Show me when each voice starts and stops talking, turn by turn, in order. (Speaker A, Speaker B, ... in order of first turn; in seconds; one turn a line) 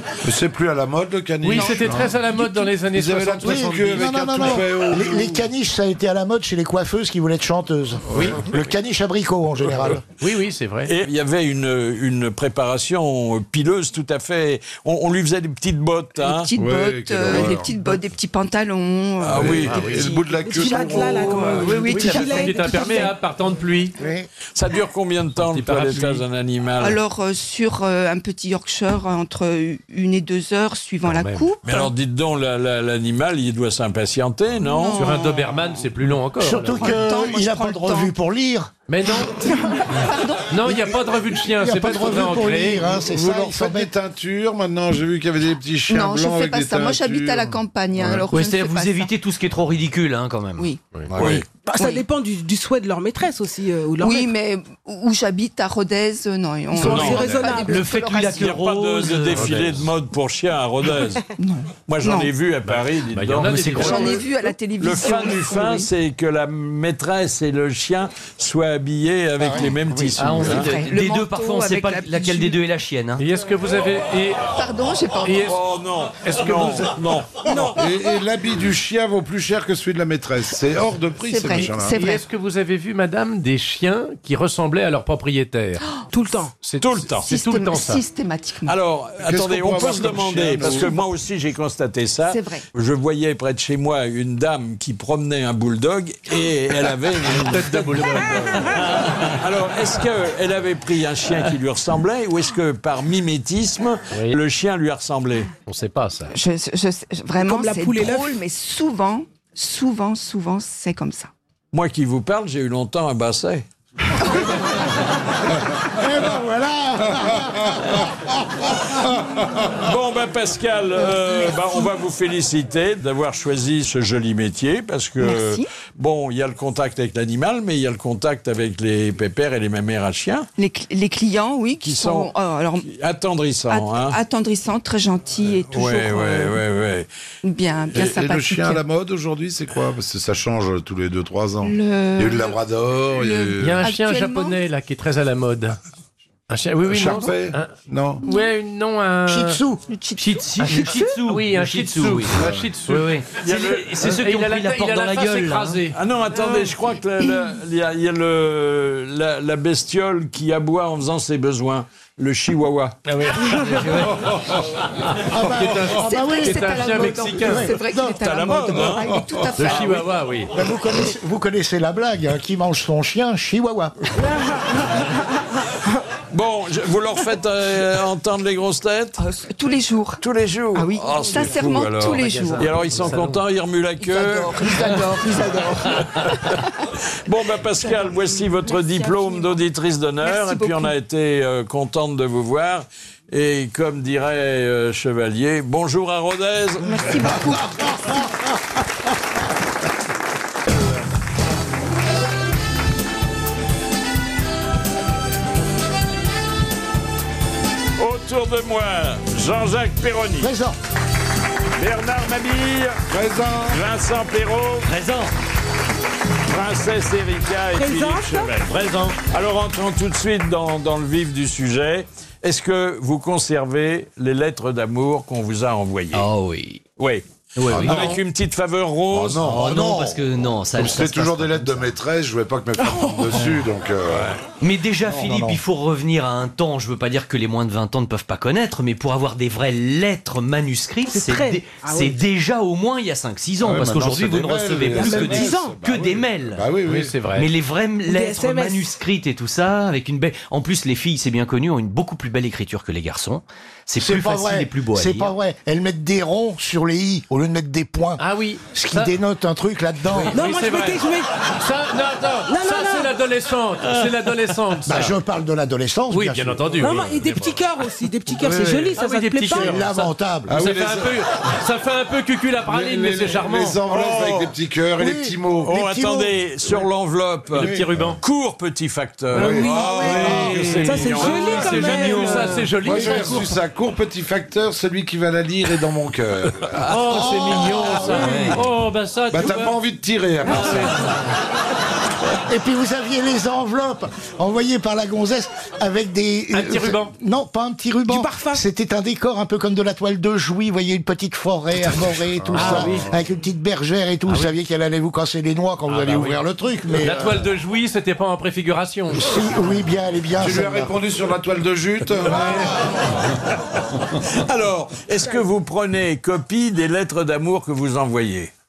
Speaker A: 0.2-5.4
Speaker B: 1.4-4.6
Speaker C: 1.5-2.0
Speaker D: 3.4-10.0
Speaker B: 8.1-8.4
Speaker B: 9.8-10.9
Speaker E: 10.8-16.5
Speaker C: 16.2-23.1
Speaker A: 16.6-17.9
Speaker E: 19.2-20.1
Speaker A: 19.3-21.6
Speaker B: 19.6-20.1
Speaker F: 20.3-23.1
Speaker E: 20.7-22.4
Speaker B: 21.4-23.9
Speaker D: 24.0-24.2
Speaker E: 24.5-27.0
Speaker B: 25.4-26.2
Speaker C: 26.8-31.9
Speaker B: 31.0-31.5
Speaker E: 31.6-35.3
Speaker C: 34.6-35.6
Speaker B: 35.0-37.0
Speaker D: 36.4-38.7
Speaker C: 36.7-38.1
Speaker B: 38.9-39.5
Speaker C: 39.1-40.9
Speaker B: 40.5-42.9
Speaker D: 40.6-43.9
Speaker A: 42.9-48.3
Speaker C: 45.9-49.1
Speaker G: 48.3-50.7
Speaker A: 51.1-51.4
Speaker E: 51.2-51.4
Speaker F: 51.5-54.3
Speaker C: 54.0-58.6
Speaker F: 56.7-57.9
Speaker E: 56.8-57.6
Speaker B: 56.9-57.5
Speaker G: 57.6-59.7
Speaker E: 58.3-61.3
Speaker B: 59.2-59.9
Speaker C: 61.4-62.3
Speaker E: 61.8-64.2
Speaker B: 62.6-64.3
Speaker G: 63.4-64.1
Speaker C: 63.7-65.9
Speaker E: 64.8-70.8
Speaker D: 69.4-70.1
Speaker G: 70.2-73.2
Speaker C: 70.6-72.6
Speaker B: 73.2-74.6
Speaker C: 74.5-75.5
Speaker B: 75.2-75.6
Speaker E: 75.4-77.8
Speaker B: 76.2-76.9
Speaker A: 77.8-82.0
Speaker C: 81.2-82.2
Speaker B: 81.6-85.9
Speaker F: 86.1-86.5
Speaker B: 86.6-88.0
Speaker E: 86.8-87.3
Speaker C: 87.3-88.8
Speaker E: 88.6-105.5
Speaker A: 89.2-90.9
Speaker C: 92.3-92.6
Speaker B: 97.2-99.1
Speaker B: 104.1-104.4
Speaker B: 105.7-106.3
Speaker C: 106.3-111.3
Speaker F: 107.4-108.4
Speaker E: 111.7-113.7
Speaker D: 116.0-117.8
Speaker E: 119.8-130.5
Speaker C: 125.2-125.7
Speaker C: 130.6-132.9
Speaker E: 131.8-134.2
Speaker C: 133.7-136.6
Speaker E: 135.7-137.1
Speaker C: 137.4-138.8
Speaker A: 137.9-143.8
Speaker C: 141.6-144.6
Speaker B: 143.6-145.8
Speaker B: 146.5-149.6
Speaker A: 146.9-148.2
Speaker C: 148.2-148.5
Speaker D: 149.3-149.8
Speaker C: 149.9-150.9
Speaker G: 150.2-155.8
Speaker B: 150.6-155.9
Speaker A: 152.3-152.7
Speaker E: 153.4-154.0
Speaker E: 155.9-163.0
Speaker C: 157.2-157.5
Speaker B: 163.1-164.1
Speaker B: 165.2-167.8
Speaker D: 165.2-168.4
Speaker C: 166.0-170.1
Speaker E: 168.1-170.0
Speaker B: 169.6-170.5
Speaker D: 170.5-174.0
Speaker E: 176.3-179.2
Speaker C: 179.2-180.2
Speaker E: 180.2-185.1
Speaker C: 180.7-182.8
Speaker B: 182.1-183.4
Speaker C: 184.0-186.7
Speaker F: 185.4-185.8
Speaker E: 187.2-197.4
Speaker C: 187.8-189.6
Speaker C: 190.2-190.9
Speaker C: 196.8-197.9
Speaker E: 208.0-210.5
Speaker D: 210.4-210.8
Speaker E: 211.8-213.0
Speaker A: 213.1-213.8
Speaker E: 213.7-214.9
Speaker G: 214.8-215.3
Speaker E: 216.5-226.3
Speaker F: 217.7-218.7
Speaker G: 218.7-219.2
Speaker G: 226.1-226.8
Speaker E: 227.0-229.4
Speaker G: 227.6-228.1
Speaker A: 227.7-228.2
Speaker A: 229.1-234.4
Speaker G: 229.4-231.9
Speaker F: 232.8-233.3
Speaker G: 234.6-246.7
Speaker D: 235.1-235.6
Speaker F: 241.1-242.2
Speaker A: 243.6-247.1
Speaker F: 244.9-245.8
Speaker B: 246.8-247.5
Speaker G: 247.3-255.3
Speaker F: 248.0-248.9
Speaker D: 254.0-260.4
Speaker B: 258.2-259.1
Speaker B: 260.1-265.1
Speaker F: 260.3-261.5
Speaker F: 262.5-263.2
Speaker D: 264.9-266.9
Speaker B: 266.1-267.7
Speaker F: 266.8-269.9
Speaker B: 268.3-273.8
Speaker A: 268.4-269.0
Speaker D: 269.5-270.6
Speaker A: 270.5-271.2
Speaker A: 272.6-275.7
Speaker E: 273.9-274.5
Speaker D: 275.0-276.3
Speaker E: 275.6-282.2
Speaker B: 277.5-278.2
Speaker A: 277.6-278.1
Speaker F: 279.3-283.1
Speaker A: 279.3-279.8
Speaker D: 280.1-280.5
Speaker G: 280.5-282.4
Speaker B: 281.2-283.6
Speaker A: 282.8-288.4
Speaker B: 286.8-289.8
Speaker D: 287.1-288.5
Speaker G: 288.2-288.5
Speaker A: 289.3-291.1
Speaker B: 290.4-291.1
Speaker D: 292.5-307.4
Speaker B: 296.5-297.1
Speaker F: 298.1-298.6
Speaker A: 302.4-303.1
Speaker B: 302.5-303.1
Speaker F: 302.6-302.9
Speaker B: 305.9-309.4
Speaker D: 309.1-310.9
Speaker A: 310.4-313.2
Speaker E: 314.2-318.5